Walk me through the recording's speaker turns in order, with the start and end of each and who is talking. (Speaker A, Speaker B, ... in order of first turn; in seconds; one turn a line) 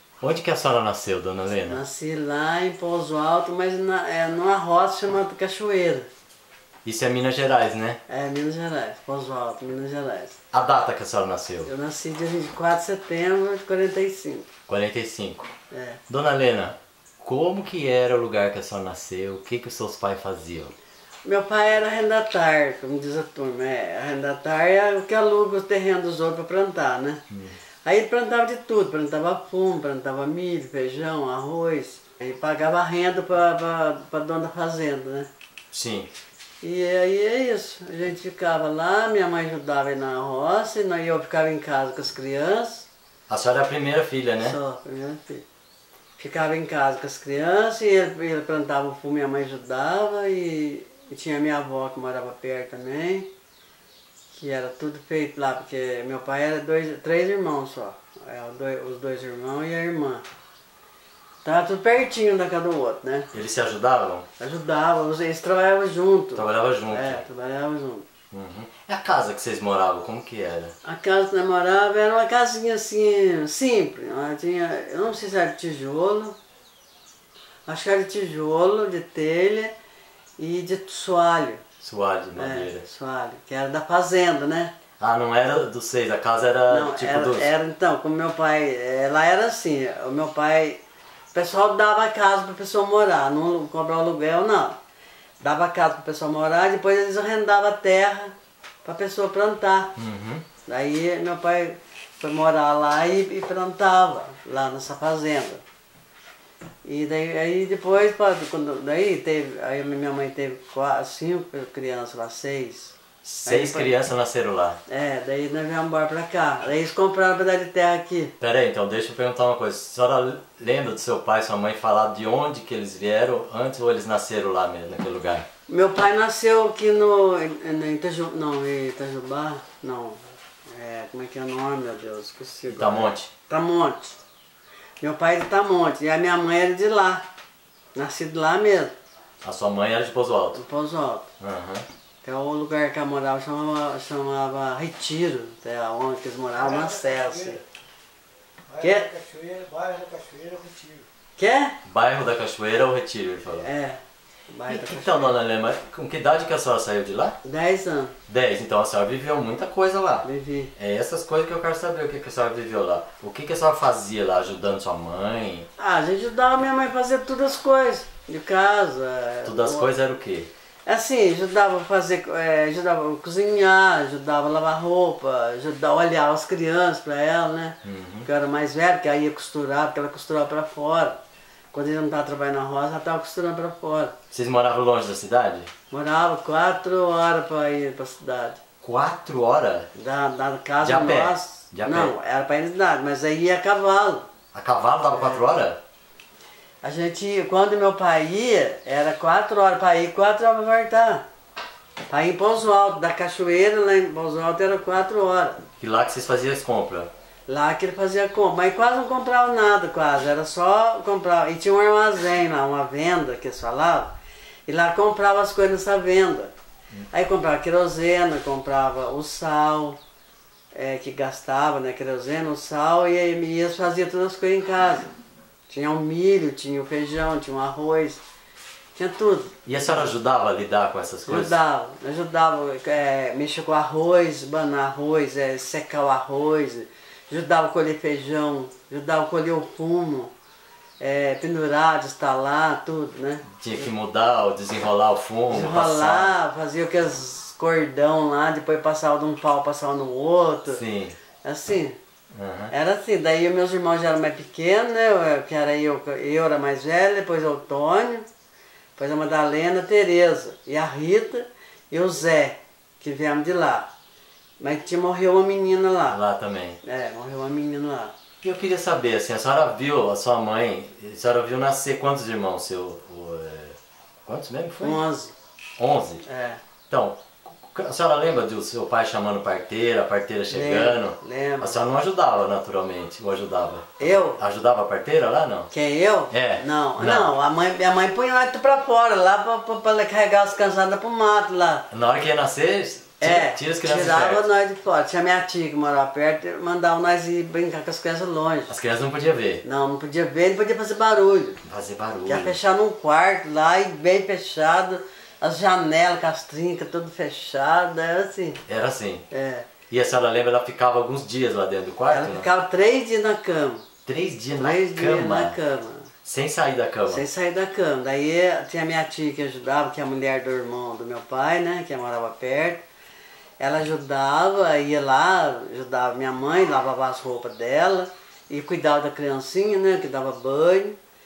Speaker A: 0.2-1.8
Speaker B: 1.7-6.1
Speaker A: 6.8-8.0
Speaker B: 8.1-10.3
Speaker A: 10.5-11.7
Speaker B: 11.7-14.5
Speaker A: 14.7-15.5
Speaker B: 15.7-16.0
Speaker A: 16.1-20.8
Speaker B: 21.2-27.2
Speaker A: 27.3-27.6
Speaker B: 27.9-35.3
Speaker A: 35.7-36.1
Speaker B: 36.6-42.9
Speaker A: 43.3-44.6
Speaker B: 44.4-45.4
Speaker B: 46.2-53.3
Speaker B: 54.3-60.2
Speaker B: 61.4-63.3
Speaker A: 63.3-64.3
Speaker B: 64.4-68.1
Speaker A: 66.3-67.2
Speaker A: 68.3-70.8
Speaker B: 70.8-76.4
Speaker B: 77.7-79.8
Speaker B: 80.4-81.6
Speaker A: 81.8-82.8
Speaker B: 82.4-84.7
Speaker A: 85.0-87.5
Speaker B: 86.7-90.8
Speaker B: 91.3-94.8
Speaker B: 95.4-100.0
Speaker A: 100.0-100.5
Speaker B: 100.7-105.6
Speaker B: 106.8-113.9
Speaker A: 113.2-114.8
Speaker B: 114.9-118.3
Speaker A: 118.4-125.5
Speaker B: 125.7-134.2
Speaker A: 132.7-133.3
Speaker B: 135.0-137.3
Speaker B: 137.9-139.0
Speaker A: 139.4-140.6
Speaker B: 140.5-141.3
Speaker A: 141.4-141.9
Speaker B: 142.2-147.6
Speaker C: 146.6-147.6
Speaker C: 148.7-151.1
Speaker B: 148.8-149.1
Speaker B: 151.4-151.8
Speaker A: 151.8-153.7
Speaker B: 153.6-154.0
Speaker B: 154.5-155.4
Speaker A: 154.7-157.4
Speaker B: 157.4-158.2
Speaker A: 158.3-160.3
Speaker B: 160.2-160.7
Speaker A: 160.8-165.7
Speaker B: 165.8-169.9
Speaker A: 169.4-170.5
Speaker B: 170.9-181.2
Speaker A: 177.8-178.3
Speaker B: 181.7-184.2
Speaker A: 184.3-185.7
Speaker B: 185.9-188.6
Speaker A: 188.8-189.9
Speaker B: 189.9-194.3
Speaker A: 190.8-192.1
Speaker A: 194.5-195.8
Speaker B: 195.1-195.4
Speaker B: 196.8-201.2
Speaker B: 202.1-205.6
Speaker A: 205.8-207.1
Speaker B: 207.5-214.1
Speaker B: 214.7-216.5
Speaker B: 217.1-220.0
Speaker B: 220.7-225.1
Speaker B: 225.7-228.2
Speaker B: 229.0-230.1
Speaker A: 229.7-231.6
Speaker B: 231.3-240.3
Speaker B: 241.0-243.9
Speaker A: 243.6-246.3
Speaker B: 245.5-250.8
Speaker A: 250.7-251.2
Speaker B: 251.4-252.0
Speaker A: 252.3-252.7
Speaker B: 252.7-258.3
Speaker B: 259.0-263.9
Speaker B: 264.6-266.2
Speaker A: 266.1-266.8
Speaker B: 266.8-268.1
Speaker A: 268.4-275.0
Speaker B: 274.8-275.3
Speaker A: 275.8-276.2
Speaker B: 276.2-276.6
Speaker A: 276.9-285.7
Speaker B: 280.5-281.8
Speaker B: 284.0-284.4
Speaker B: 285.7-291.9
Speaker A: 286.3-287.3
Speaker A: 291.9-294.5
Speaker B: 293.2-298.7
Speaker A: 298.7-299.6
Speaker B: 299.6-301.6
Speaker A: 301.6-302.6
Speaker B: 302.3-308.6
Speaker A: 308.7-309.2
Speaker B: 309.3-309.7
Speaker A: 309.9-312.5
Speaker B: 312.1-313.9
Speaker A: 314.1-315.6
Speaker B: 314.6-316.1
Speaker A: 316.2-317.2
Speaker B: 317.1-322.8
Speaker B: 323.6-331.0